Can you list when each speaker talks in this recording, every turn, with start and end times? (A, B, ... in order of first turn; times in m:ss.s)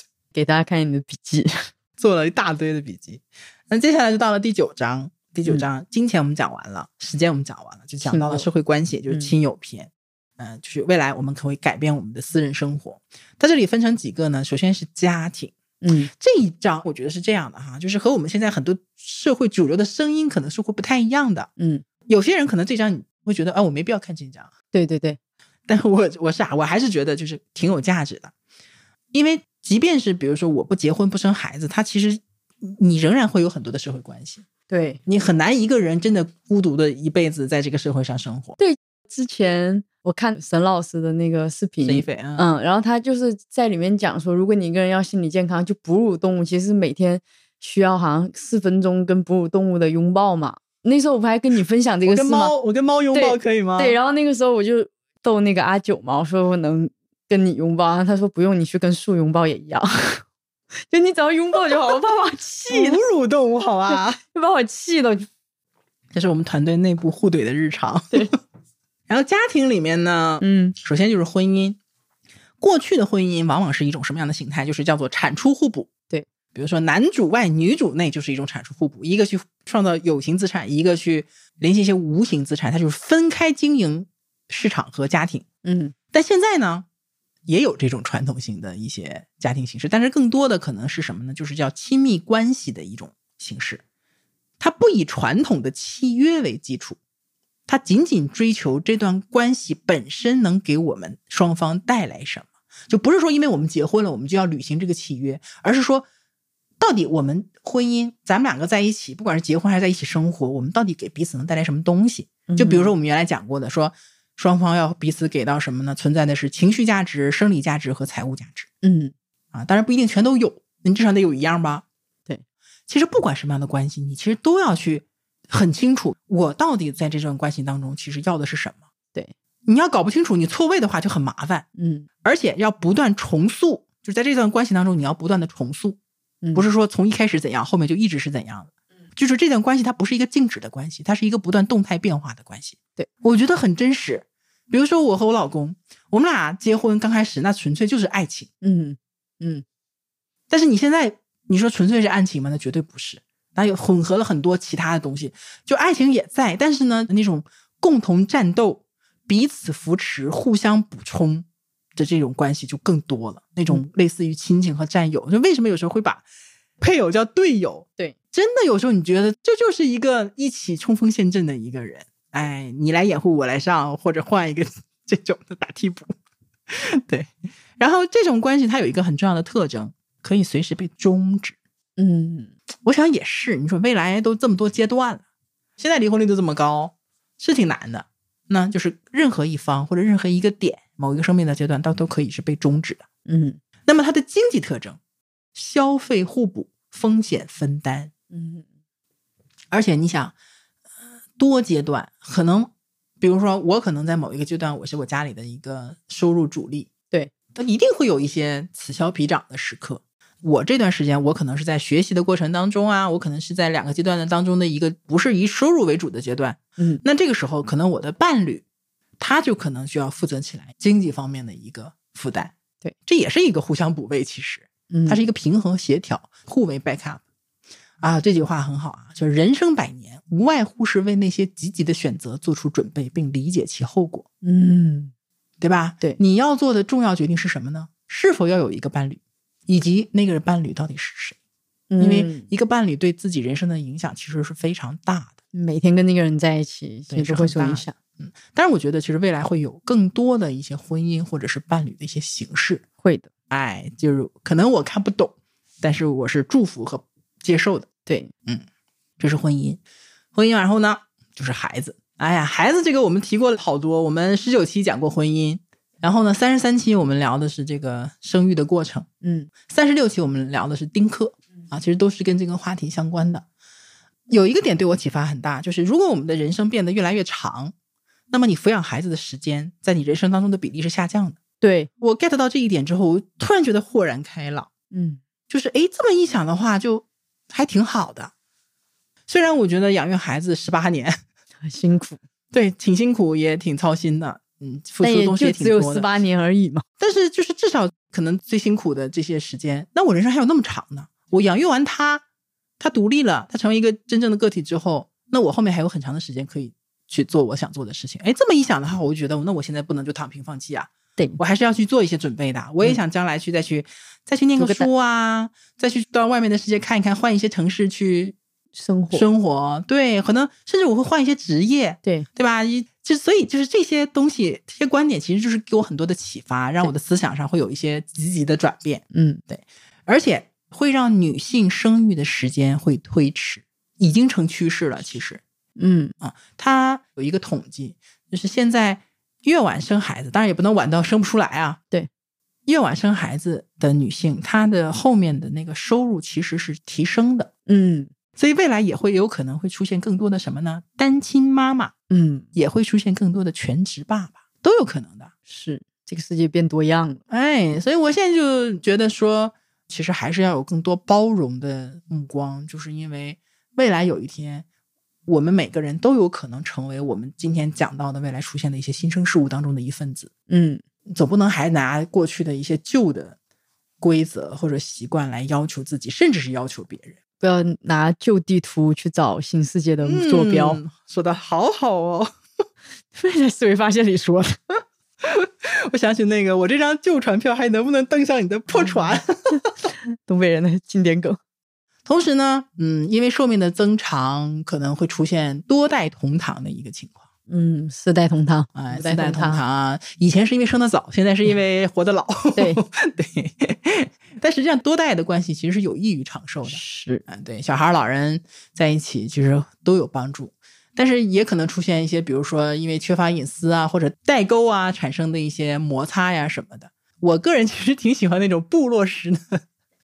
0:00.3-0:01.7 A
0:02.0-0:15.6 B
0:08.0-0:08.5 A
0:09.1-0:09.3 A
0:15.8-0:16.1 A
0:16.1-0:21.5 B
0:21.6-0:21.8 A
0:22.1-0:24.5 B
0:24.7-0:25.2 A
0:25.7-0:28.3 B
0:29.1-0:34.4 B
0:34.7-0:35.0 A
0:35.0-0:38.6 B
0:38.6-0:52.5 A
0:41.8-0:42.4 B
0:52.0-0:54.0 B
0:53.1-1:00.2 A
1:00.9-1:03.0 A
1:02.7-1:04.2 B
1:03.9-1:05.3 A
1:06.1-1:08.3 B
1:09.1-1:11.8 B
1:10.4-1:10.8 A
1:12.6-1:15.9 B
1:16.5-1:25.4 B
1:25.6-1:25.9 A
1:26.1-1:26.8 B
1:27.5-1:33.8 B
1:34.6-1:37.0 B
1:37.7-1:46.1 B
1:46.8-1:58.7 B
1:52.5-1:52.9 A
1:58.8-1:59.1 A
1:59.5-2:01.8 B
2:02.9-2:08.8 B
2:09.6-2:11.7 B
2:11.8-2:12.1 A
2:12.2-2:16.0 B
2:16.4-2:16.7 A
2:16.5-2:28.5 B
2:28.6-2:29.6 A
2:30.5-2:46.2 B
2:46.8-2:56.1 B
2:56.7-3:01.6 B
3:02.0-3:02.5 A
3:02.8-3:05.2 B
3:05.8-3:13.0 B
3:13.3-3:13.6 A
3:13.9-3:15.0 B
3:15.6-3:18.1 B
3:18.3-3:18.6 A
3:19.7-3:20.3 B
3:21.4-3:26.9 B
3:27.6-3:38.6 B
3:39.2-3:42.6 B
3:43.0-3:47.2 B
3:44.9-3:45.2 A
3:48.0-3:54.3 B
3:54.4-3:55.1 A
3:55.6-4:01.4 B
4:01.9-4:02.5 A
4:02.0-4:05.4 B
4:05.5-4:07.9 A
4:07.1-4:12.8 B
4:13.0-4:13.3 A
4:13.5-4:17.9 B
4:19.2-4:19.8 B
4:20.3-4:29.1 B
4:29.2-4:29.5 A
4:29.6-4:33.4 B
4:34.3-4:37.7 B
4:38.3-4:41.4 B
4:41.6-4:41.9 A
4:42.0-4:44.7 B
4:44.9-4:45.2 A
4:45.5-4:48.3 B
4:49.3-4:51.2 B
4:51.6-4:52.2 A
4:52.5-4:56.1 B
4:55.0-4:56.8 A
4:57.0-5:02.2 B
5:02.8-5:18.4 B
5:14.6-5:14.9 A
5:18.7-5:19.3 A
5:19.1-5:35.4 B
5:29.1-5:29.4 A
5:35.8-5:36.1 A
5:36.2-5:41.8 B
5:42.7-5:47.5 B
5:47.7-5:48.1 A
5:48.4-5:51.9 B
5:52.1-5:52.5 A
5:52.6-5:55.3 B
5:55.5-5:57.2 A
5:57.3-6:04.6 B
6:05.3-6:10.3 B
6:10.5-6:10.8 A
6:11.1-6:13.4 B
6:14.0-6:17.2 B
6:17.4-6:20.8 A
6:20.0-6:22.3 B
6:23.1-6:24.6 A
6:25.2-6:29.6 B
6:28.8-6:31.4 A
6:32.0-6:37.2 B
6:37.5-6:39.6 A
6:38.7-6:59.6 B
6:42.6-6:42.8 A
6:46.6-6:47.2 A